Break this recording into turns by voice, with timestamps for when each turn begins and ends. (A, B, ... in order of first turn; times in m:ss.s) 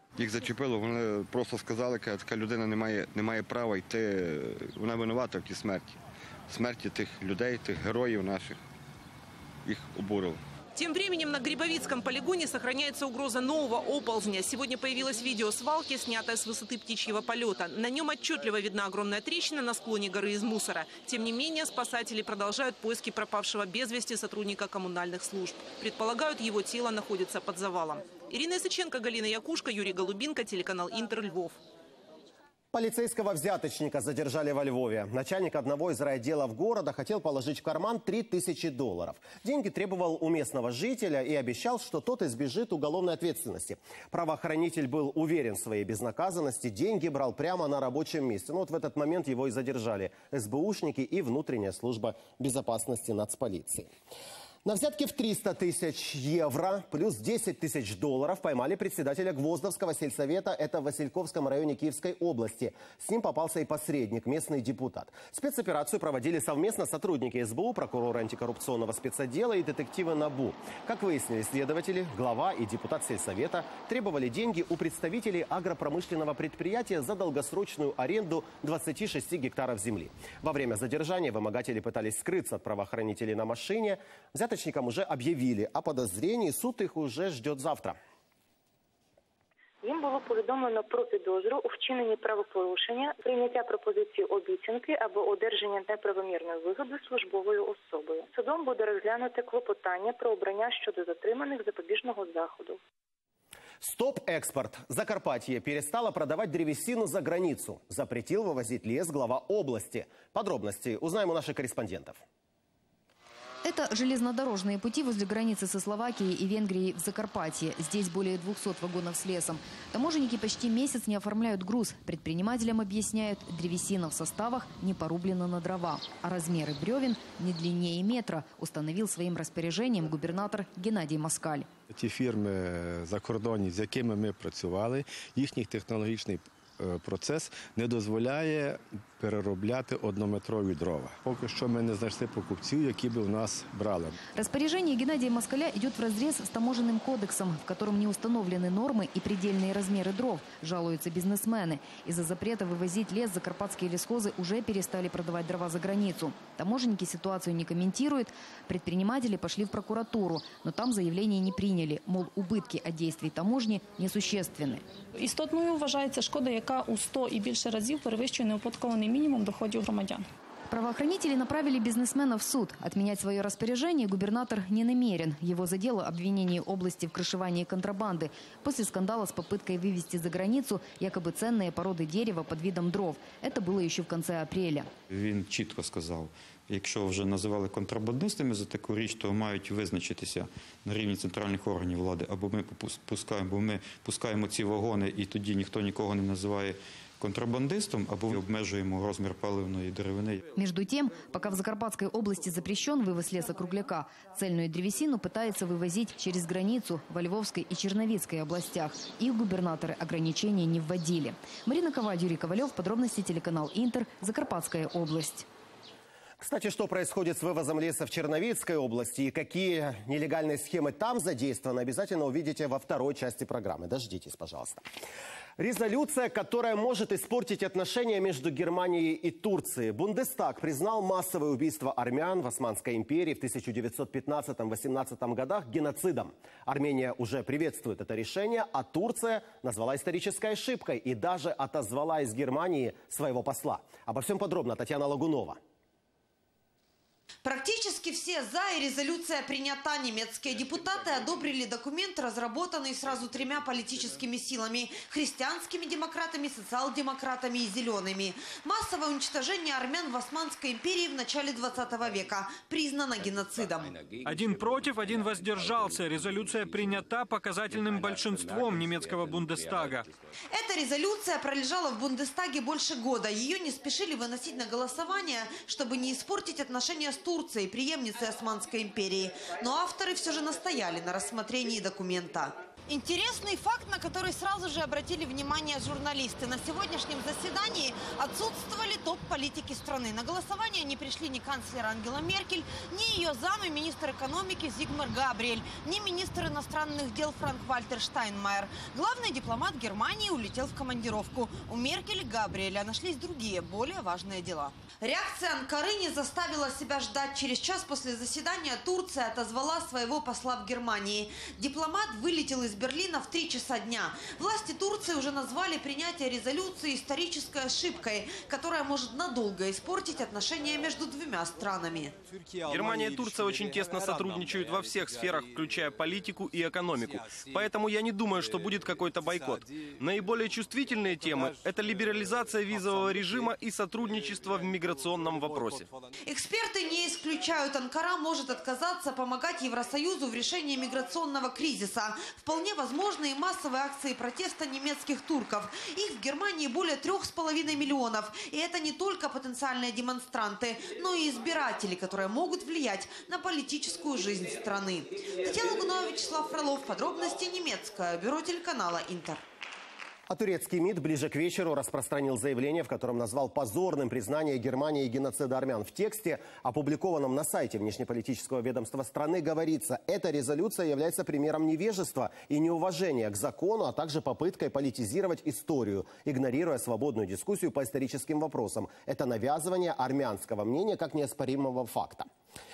0:00.2-0:08.6 A
0:09.6-0:10.4 A
0:10.8-0:31.6 B
0:32.7-0:53.9 C
0:54.6-1:28.0 C
1:29.8-1:42.8 D
1:43.8-1:52.2 C
1:53.6-2:11.7 E
2:11.9-2:24.2 F
2:24.3-2:44.8 E
2:45.2-2:50.2 G
2:50.7-3:04.9 E
3:05.1-3:20.4 H
3:20.6-3:35.5 E
3:36.4-3:44.8 C
3:45.6-4:05.6 C
4:07.4-4:24.0 I
4:24.2-4:30.1 J
4:30.5-5:22.1 I
5:22.7-5:24.7 K
5:25.4-5:26.3 K
5:27.0-5:27.7 K
5:28.2-5:30.8 K
5:31.3-5:32.2 K
5:33.3-5:35.8 K
5:36.3-5:59.4 I
6:00.3-6:22.3 C